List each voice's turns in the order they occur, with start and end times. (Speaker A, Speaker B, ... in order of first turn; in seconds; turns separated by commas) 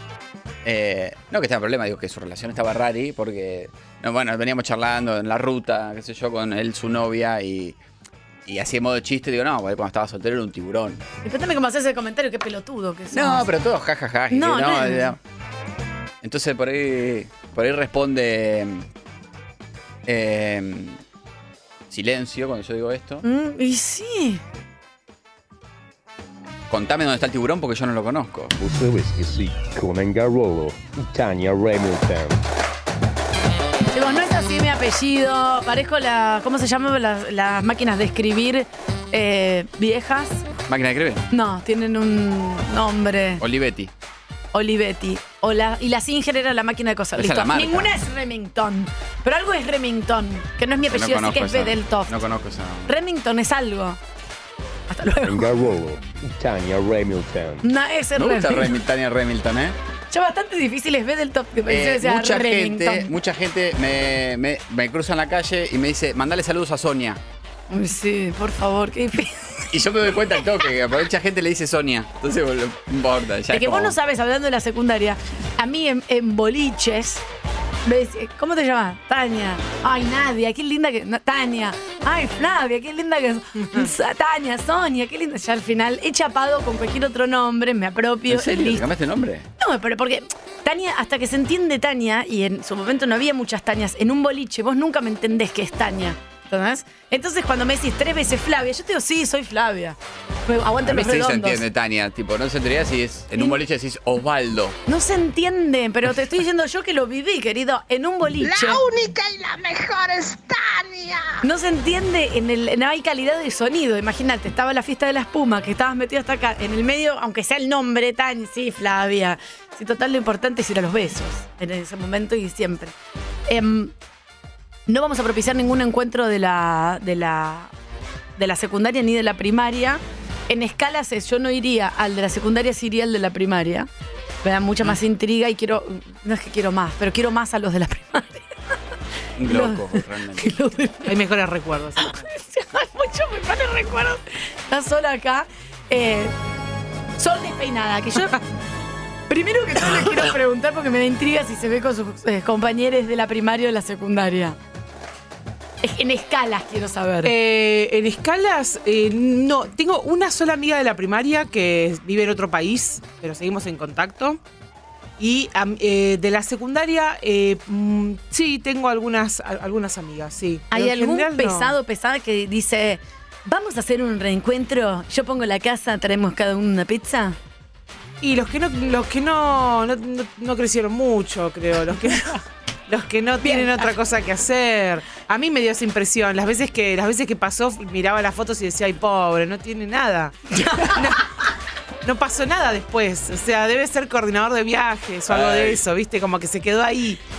Speaker A: 0.7-7.8, Speaker A: 8.5-11.0, Speaker B: 11.2-13.5, Speaker A: 13.1-15.2, Speaker B: 14.3-15.2, Speaker A: 16.2-18.9, Speaker A: 20.1-21.0, Speaker A: 21.9-23.2, Speaker B: 23.2-24.4, Speaker A: 26.7-28.5, Speaker C: 28.6-32.4, Speaker B: 33.9-40.4, Speaker A: 40.7-41.2, Speaker B: 41.3-43.4, Speaker A: 43.4-43.9, Speaker B: 44.5-52.2, Speaker A: 47.2-47.9, Speaker A: 50.9-52.9, Speaker B: 52.9-54.0, Speaker B: 54.9-55.5, Speaker C: 55.3-57.6, Speaker B: 57.6-58.7, Speaker A: 58.2-59.8, Speaker B: 60.1-63.1, Speaker A: 61.7-67.2, Speaker B: 67.7-69.4, Speaker A: 69.7-74.0, Speaker B: 73.5-77.2, Speaker B: 77.9-88.8, Speaker D: 83.6-83.9, Speaker A: 88.3-89.5, Speaker B: 89.6-101.6, Speaker A: 100.8-104.8, Speaker B: 104.9-108.8, Speaker E: 108.4-111.4, Speaker B: 111.4-122.9, Speaker B: 123.5-123.9, Speaker B: 124.9-127.7, Speaker B: 128.4-133.9, Speaker B: 134.4-138.5, Speaker A: 139.4-140.5, Speaker B: 139.5-141.1, Speaker D: 141.1-142.2, Speaker B: 142.0-146.3, Speaker B: 147.2-148.4, Speaker B: 149.3-154.6, Speaker B: 155.8-157.3, Speaker D: 157.2-164.4, Speaker D: 165.2-171.8, Speaker B: 170.7-177.4, Speaker D: 178.2-182.4, Speaker D: 182.9-191.2, Speaker B: 183.4-183.9, Speaker B: 190.6-191.0, Speaker D: 192.1-197.2, Speaker A: 195.3-195.8